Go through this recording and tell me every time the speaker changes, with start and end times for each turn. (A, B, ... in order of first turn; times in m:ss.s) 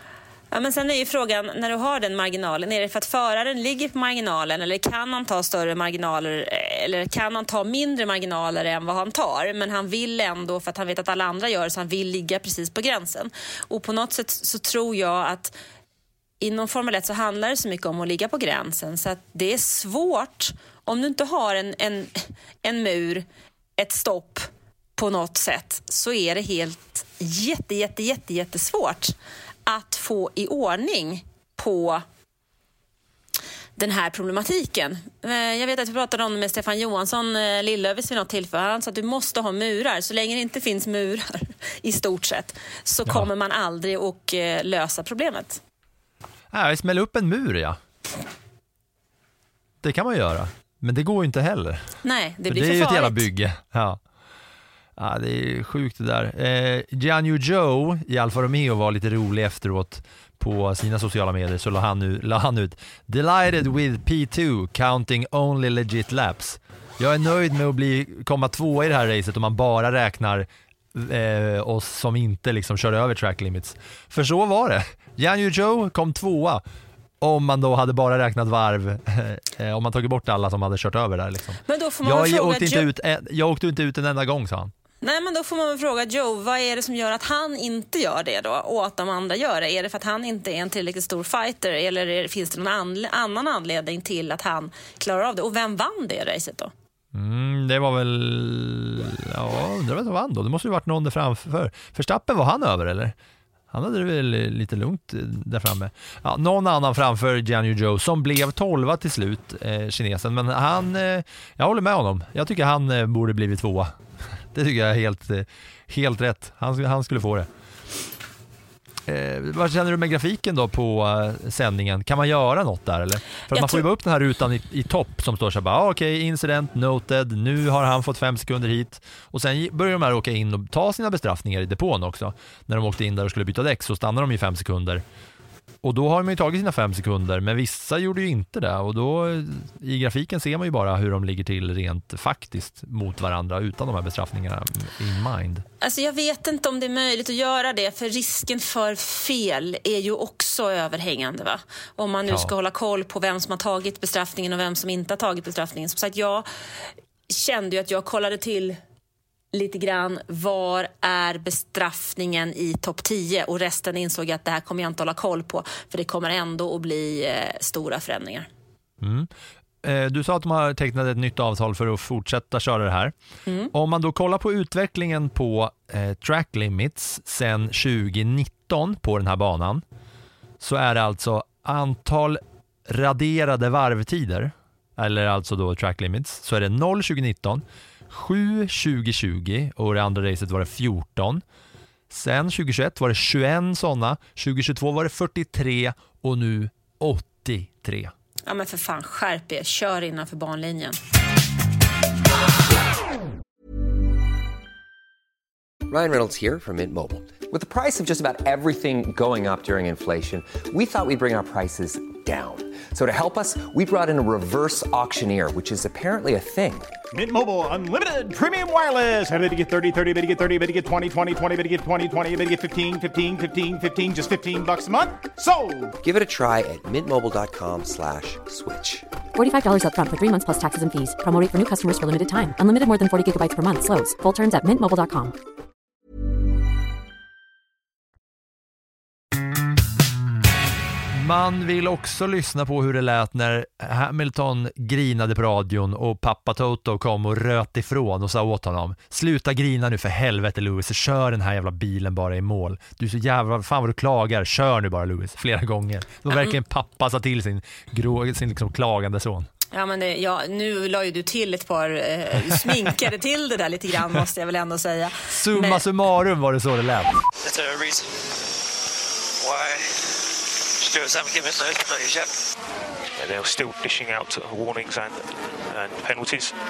0:00.5-0:15.5 A
0:16.4-0:23.2 A
0:23.8-0:29.1 A
0:29.6-0:32.0 A
0:33.8-0:45.6 A
0:46.5-0:47.8 B
0:49.8-0:52.0 B
0:52.0-0:53.3 A
0:52.5-0:54.0 B
0:55.0-1:16.6 B
1:17.2-1:24.7 B
1:21.6-1:22.9 A
1:25.0-1:36.7 A
1:37.1-1:43.1 B
1:43.7-1:54.0 B
1:54.5-1:57.5 B
1:59.0-2:15.0 B
2:03.5-2:03.8 A
2:15.8-2:25.6 B
2:25.8-2:36.4 A
2:32.3-2:32.5 B
2:37.3-2:38.8 A
2:39.5-2:48.5 A
2:49.0-2:49.3 B
2:49.8-2:53.1 B
2:53.7-2:59.8 B
3:00.6-3:11.4 B
3:12.1-3:18.1 B
3:18.4-3:21.0 A
3:25.9-3:36.9 C
3:37.1-3:45.9 D
3:46.0-3:49.0 C
3:49.3-3:55.3 E
4:01.1-4:19.5 B
4:19.7-4:25.8 A
4:25.3-4:27.2 B
4:33.2-4:36.5 F